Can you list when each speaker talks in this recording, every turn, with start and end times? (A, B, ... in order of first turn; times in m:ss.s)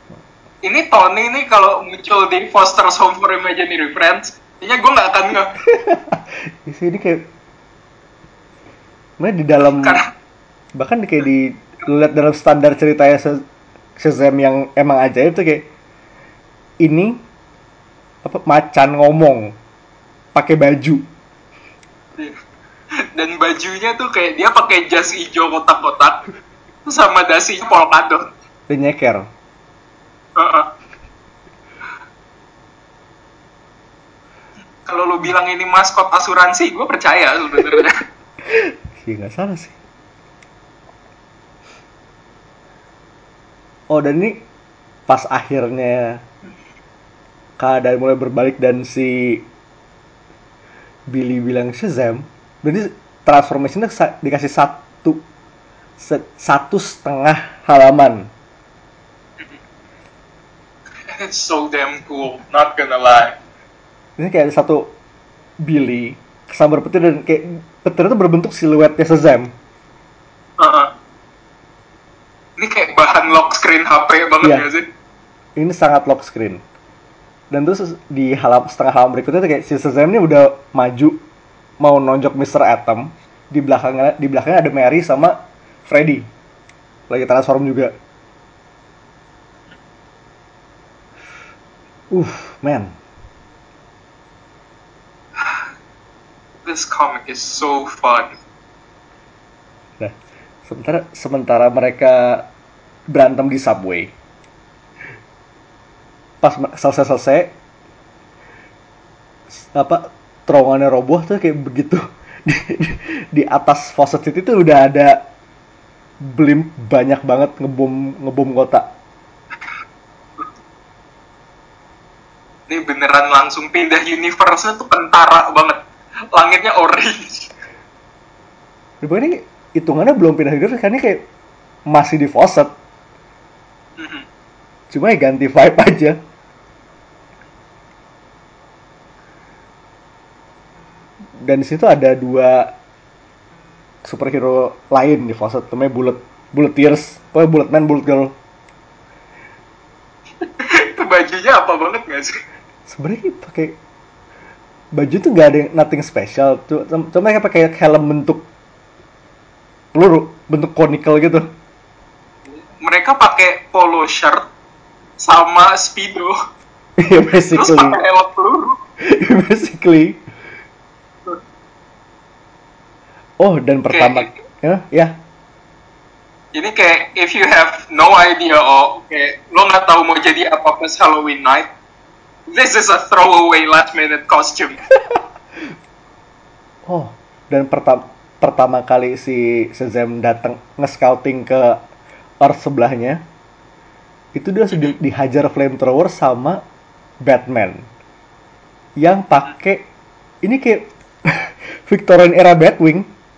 0:00.6-0:05.6 A
0:05.6-0:07.2 B
0:09.2-0:10.0 B
0:09.6-0:10.1 A
0:10.7-0:13.4 B
0:14.0-0:15.7 B
0:16.8-0:17.2 B
0:18.2-0:19.5 B
0:20.3-0:21.0 B
0:23.1-0:26.2 A
0:26.8-0:28.3 A
0:28.7-0:29.3 B
0:30.4-0:30.7 A
0:34.8-0:38.0 A
0:38.5-0:39.8 B
0:43.9-0:44.4 B
0:45.1-0:46.2 B
0:47.6-0:49.4 B
0:51.1-0:55.2 B
0:56.0-0:58.3 B
1:01.1-1:03.4 A
1:04.2-1:04.9 B
1:05.6-1:09.5 B
1:10.6-1:10.9 A
1:12.6-1:14.9 A
1:15.6-1:16.6 B
1:17.5-1:21.2 B
1:21.8-1:26.3 B
1:27.1-1:27.9 B
1:32.1-1:32.9 B
1:36.6-1:38.4 A
1:40.0-1:42.5 B
1:43.1-1:44.1 B
1:46.4-1:47.5 B
1:49.6-1:55.2 B
1:56.2-1:58.9 B
2:02.7-2:05.8 A
2:06.3-2:07.5 A
2:09.0-2:11.2 B
2:11.9-2:12.7 B
2:14.0-2:14.2 A
2:14.9-2:16.2 B
2:21.4-2:22.7 B
2:24.0-2:28.3 B
2:30.4-2:32.4 A
2:32.9-2:33.8 B
2:34.9-2:38.5 B
2:39.9-2:41.4 B
2:42.8-2:44.4 A
2:45.2-2:46.3 A
2:47.0-2:48.0 B
2:47.5-2:48.8 A
2:49.0-2:50.2 B
2:53.4-2:55.2 B
2:53.9-2:54.4 A
2:56.5-3:01.7 A
3:02.5-3:04.8 A
3:06.8-3:11.8 B
3:12.4-3:13.2 B
3:14.3-3:16.6 B
3:17.2-3:17.8 B
3:19.0-3:19.9 B
3:20.4-3:23.1 B